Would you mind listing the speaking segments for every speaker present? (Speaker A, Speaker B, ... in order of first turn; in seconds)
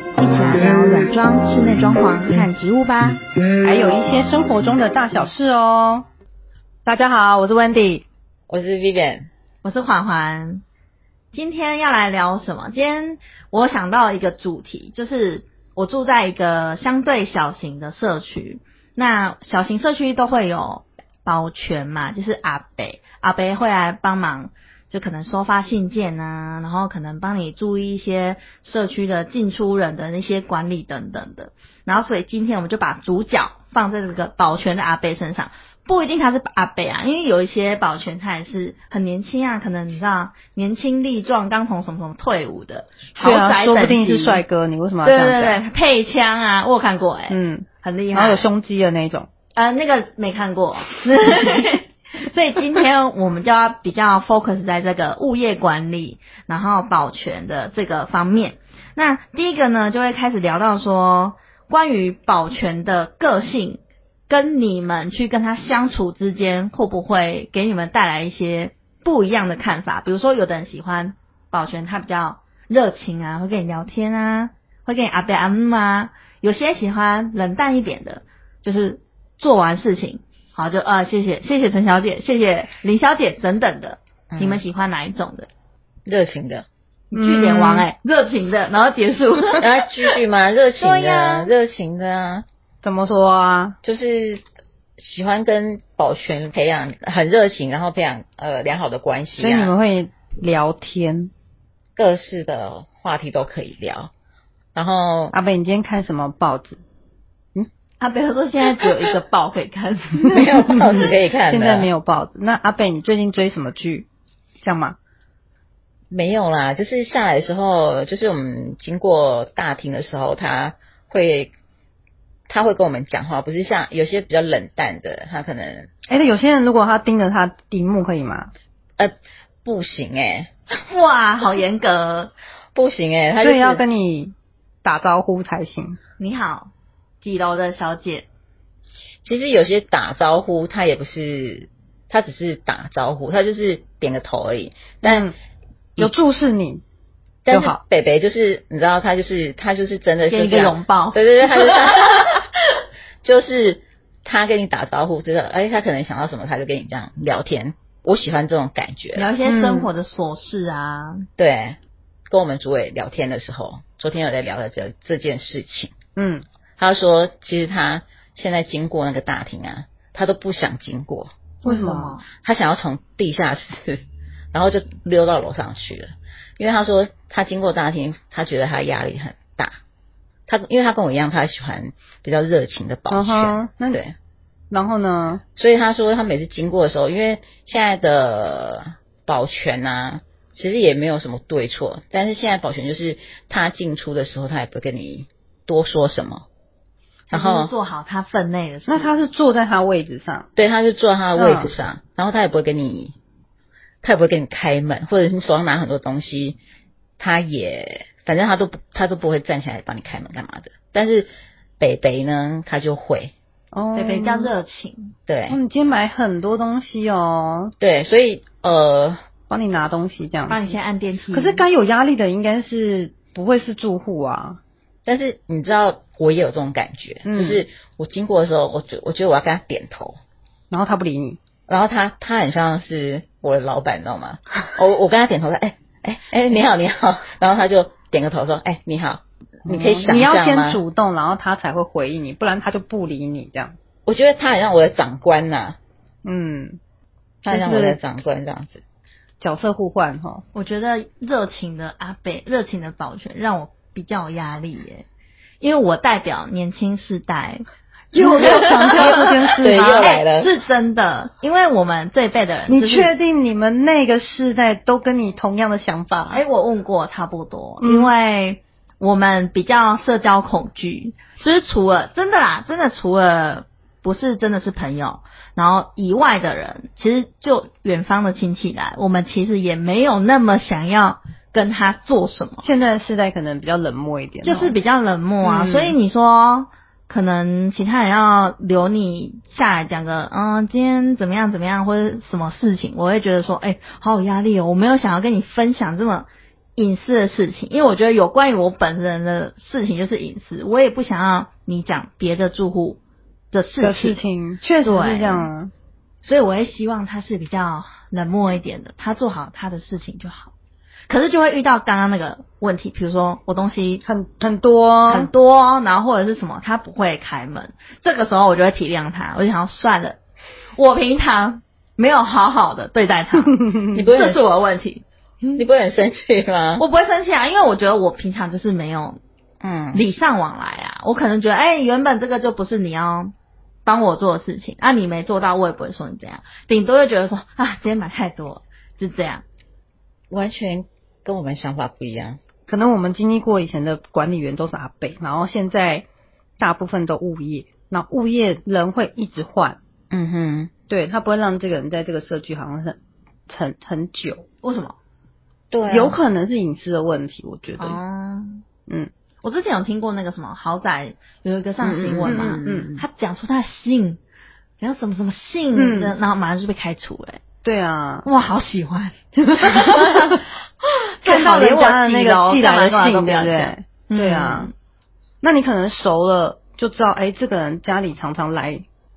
Speaker A: 0.2-3.2, 9.6-10.6, 11.3-44.4, 45.0-48.5, 49.5-85.5, 87.1-90.1, 90.8-91.5, 108.0-110.4, 130.9-132.3, 136.2-136.7, 137.2-138.3, 150.3-152.3, 159.2-161.3, 171.6-172.3, 197.3-199.1, 213.9-215.1, 220.5-221.7, 250.5-255.1, 255.6-263.1, 266.3-282.6, 284.4-303.0, 303.5-304.2, 304.8-305.5, 306.2-310.5, 311.1-314.0, 315.1-320.2, 320.8-325.6, 326.8-329.2, 329.9-333.3, 333.9-339.4, 354.6-355.0, 357.8-358.6, 359.4-364.2, 364.8-367.4, 368.2-370.4, 371.2-374.7
Speaker B: 3.6-6.0, 6.9-8.0, 43.2-45.6, 47.3-49.3, 87.1-87.9, 92.8-93.8, 99.4-101.3, 105.3-106.8, 110.3-114.1, 114.6-115.0, 126.1-128.5, 133.4-136.0, 145.0-145.3, 146.0-146.8, 147.5-147.8, 159.4-159.9, 166.2-166.4, 171.6-172.2, 183.1-184.0, 184.7-185.4, 198.9-200.5, 201.4-201.7, 213.7-214.5, 215.5-217.7, 219.5-220.8, 221.3-224.6, 227.3-227.6, 230.7-231.4, 239.7-243.8, 246.2-246.8, 247.4-248.0, 249.4-250.4, 258.1-260.1, 262.7-266.4, 267.8-268.1, 282.6-284.8, 285.4-286.0, 303.8-305.7, 314.1-315.3, 342.7-346.1, 346.6-349.8, 350.9-353.0, 353.5-354.4, 355.9-358.0, 362.3-362.9, 365.8-366.1, 367.6-368.3, 369.7-370.3, 371.2-374.7, 375.4-378.9
Speaker C: 8.5-9.3, 84.3-84.6, 86.1-86.7, 89.6-92.5, 93.8-94.4, 95.0-99.7, 102.0-104.1, 104.8-105.3, 110.3-111.9, 116.1-121.5, 122.5-125.9, 129.0-130.5, 132.7-133.8, 139.2-145.3, 147.5-152.4, 153.2-159.3, 161.4-161.8, 162.3-166.0, 166.8-171.3, 172.3-179.8, 180.5-184.2, 185.6-196.5, 197.3-197.7, 200.6-203.2, 204.0-206.6, 207.2-211.3, 211.8-213.3, 215.3-215.6, 217.8-219.2, 225.1-230.2, 231.7-240.8, 244.1-245.8, 247.5-248.8, 258.4-260.5, 323.9-324.4, 325.6-326.9, 329.6-330.0, 340.3-342.4, 350.1-350.7, 355.7-356.2, 361.8-363.0